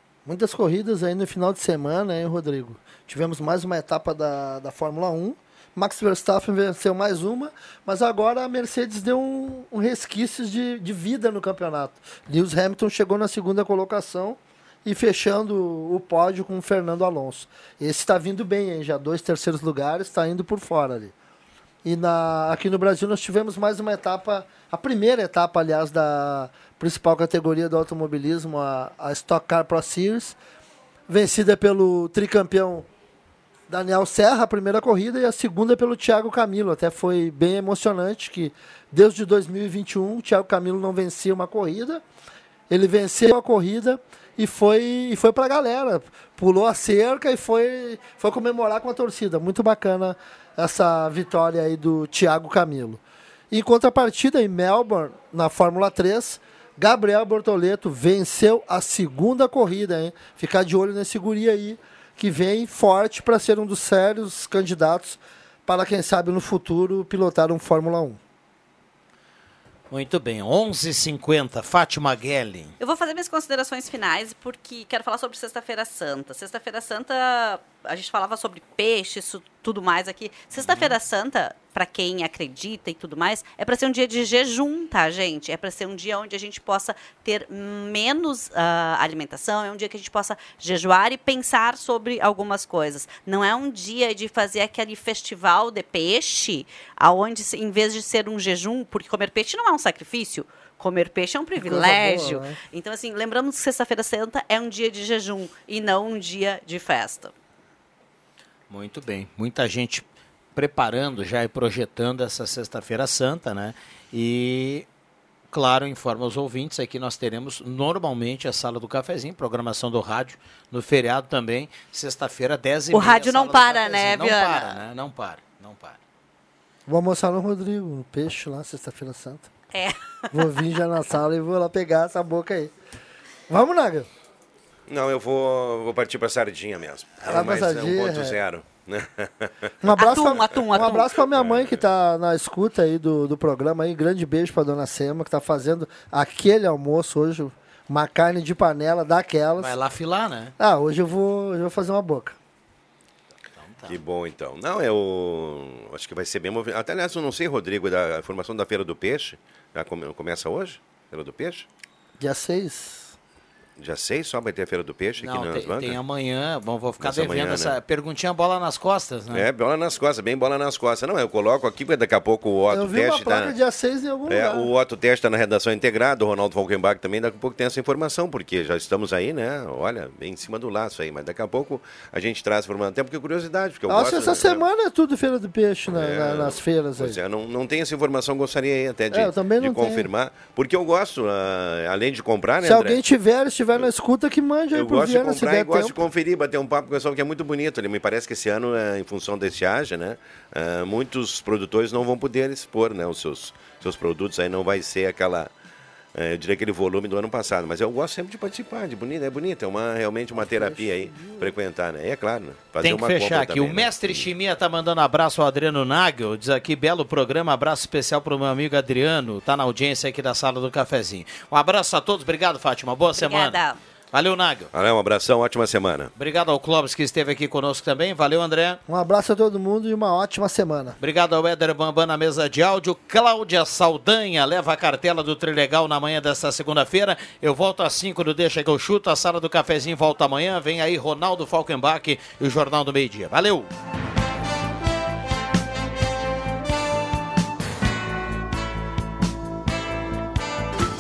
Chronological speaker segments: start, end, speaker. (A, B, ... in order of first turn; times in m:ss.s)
0:00.2-0:21.1 A
0:21.8-0:30.4 A
0:31.1-0:32.9 A
0:33.7-0:42.0 A
0:42.7-1:08.2 A
1:09.9-1:12.7 B
1:12.8-1:47.3 C
1:20.6-1:21.0 B
1:41.6-1:42.6 A
1:48.7-1:54.9 B
1:55.5-2:06.0 B
2:02.9-2:04.8 C
2:06.9-2:09.5 A
2:10.3-2:12.7 A
2:13.5-2:14.1 A
2:14.9-2:19.7 D
2:17.2-2:18.4 A
2:19.8-2:29.8 A
2:19.9-2:21.3 C
2:21.3-2:21.8 D
2:29.6-2:30.5 B
2:30.6-2:32.4 A
2:33.6-2:34.0 B
2:33.9-2:41.7 D
2:42.2-2:43.1 A
2:43.8-2:46.0 D
2:45.2-2:49.5 B
2:47.0-2:47.8 D
2:49.3-2:53.5 D
2:52.7-2:54.7 A
2:54.3-3:04.6 D
3:03.9-3:07.2 A
3:05.9-3:13.0 D
3:09.1-3:10.1 A
3:12.6-3:16.0 A
3:14.7-3:25.5 D
3:26.1-3:34.3 D
3:30.4-3:31.5 A
3:32.8-3:44.7 B
3:43.2-3:43.8 C
3:44.7-3:46.1 D
3:46.2-3:48.8 B
3:48.9-3:51.0 A
3:51.0-4:03.7 B